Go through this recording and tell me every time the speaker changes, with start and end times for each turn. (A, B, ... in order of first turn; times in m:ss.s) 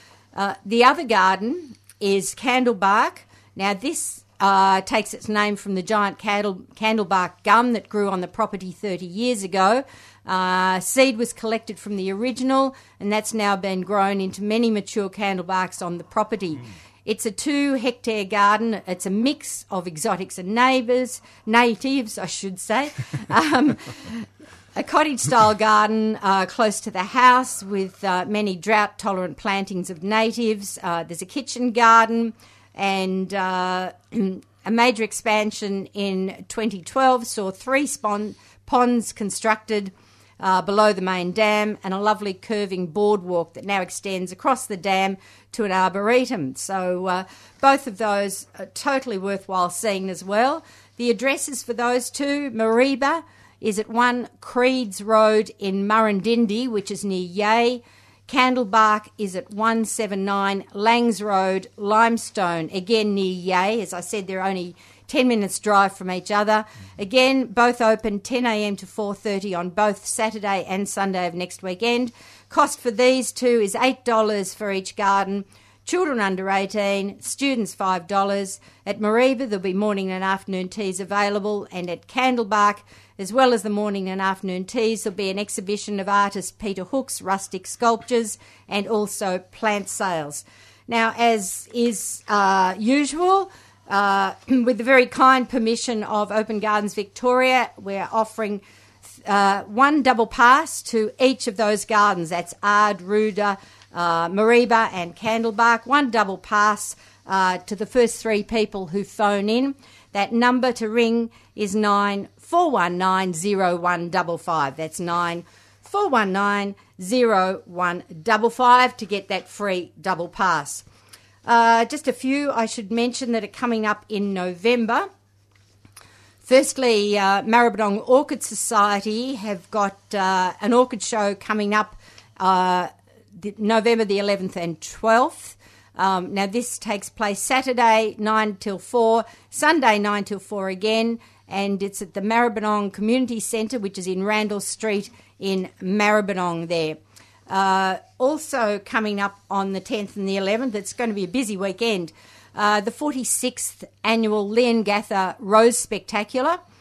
0:00.3-1:38.6 A
1:39.2-2:00.8 A
2:01.4-2:05.1 A
2:06.4-2:36.6 A